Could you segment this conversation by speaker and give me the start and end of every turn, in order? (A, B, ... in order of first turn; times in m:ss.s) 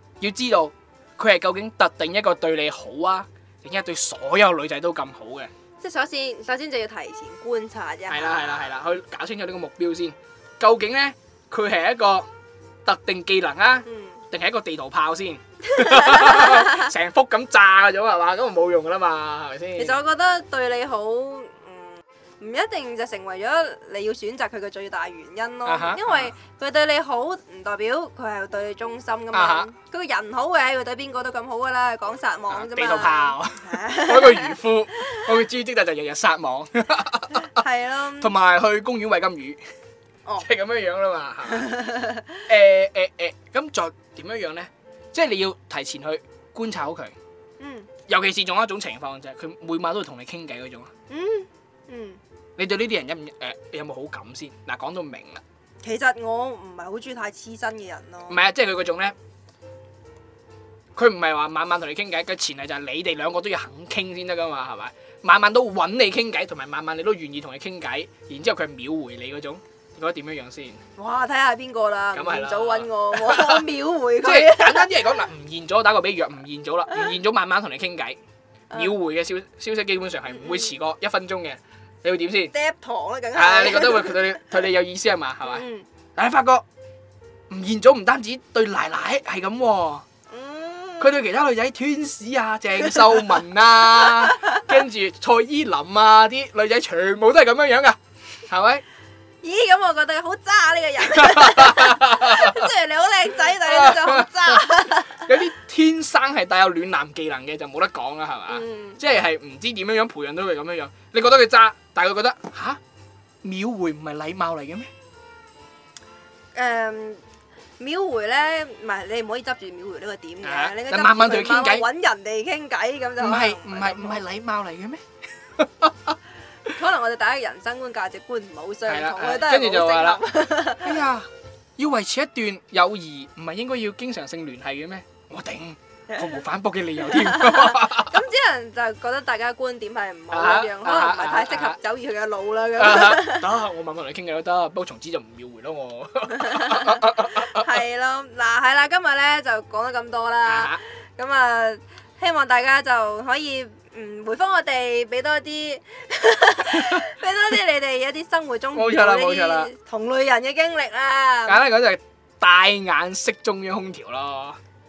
0:00.2-0:05.5 A
0:05.8-0:08.7 B
0:08.1-0:12.3 A
0:12.8-0:20.0 A
0:13.8-0:14.2 B
0:15.7-0:16.9 B
0:19.8-0:34.6 B
0:25.6-0:26.3 A
0:29.3-0:29.7 A
0:32.5-0:37.6 A
0:37.3-0:38.3 B
0:38.2-0:39.6 A
0:40.4-0:41.8 A
0:41.5-0:42.4 B
0:42.5-0:47.1 A
0:47.6-0:47.9 B
0:48.1-0:50.9 A
0:51.1-0:52.2 B
0:52.6-0:55.4 A
0:55.8-0:58.4 B
0:58.3-0:59.1 A
1:00.9-1:10.8 A
1:11.0-1:15.0 B
1:12.1-1:13.7 A
1:14.2-1:18.2 A
1:18.7-1:22.5 A
1:22.5-1:24.3 B
1:23.4-1:26.6 A
1:25.4-1:25.9 B
1:27.5-1:30.0 A
1:30.3-1:31.2 B
1:31.0-1:38.8 A
1:39.4-1:45.3 B
1:41.0-1:42.7 A
1:43.4-1:52.8 A
1:48.5-1:49.0 B
1:53.4-1:54.9 A
1:56.6-1:57.2 B
1:57.8-2:04.2 B
2:00.4-2:01.9 A
2:03.2-2:05.0 A
2:05.6-2:06.2 A
2:06.7-2:11.0 B
2:08.9-2:18.2 A
2:16.1-2:16.4 B
2:17.1-2:23.5 B
2:20.3-2:21.8 A
2:22.8-2:27.7 A
2:26.4-2:41.6 B
2:30.5-2:30.8 A
2:38.8-2:39.7 A
2:41.5-2:44.6 A